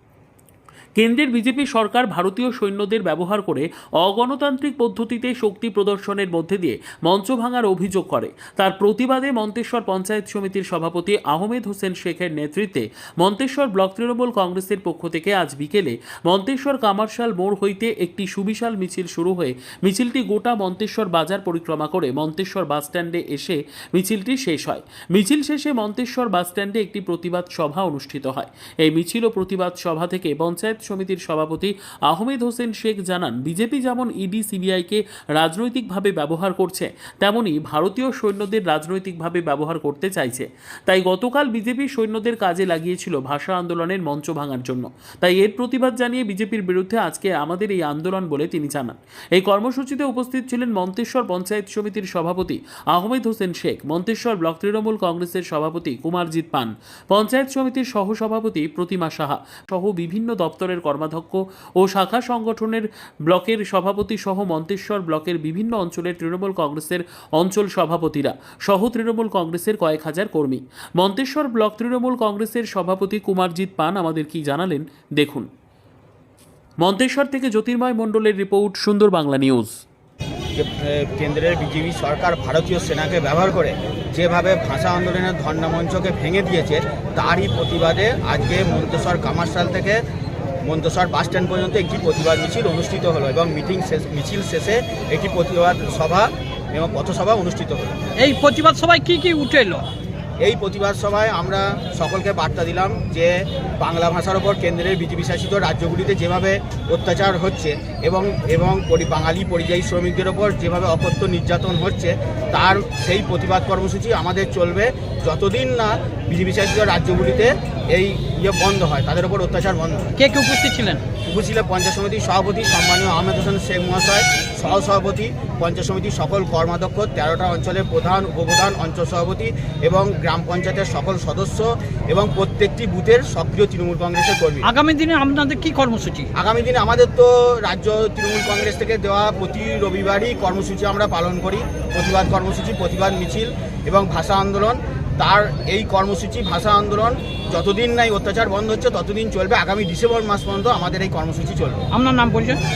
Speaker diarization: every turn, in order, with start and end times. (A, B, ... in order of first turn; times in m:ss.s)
0:01.0-1:15.5 A
1:16.8-1:19.8 A
1:20.6-1:30.0 B
1:30.6-1:38.0 B
1:38.2-1:39.9 C
1:40.4-2:00.1 B
2:00.2-2:01.0 C
2:01.2-2:14.7 B
2:14.6-2:16.3 C
2:16.3-2:31.8 B
2:31.9-2:32.6 C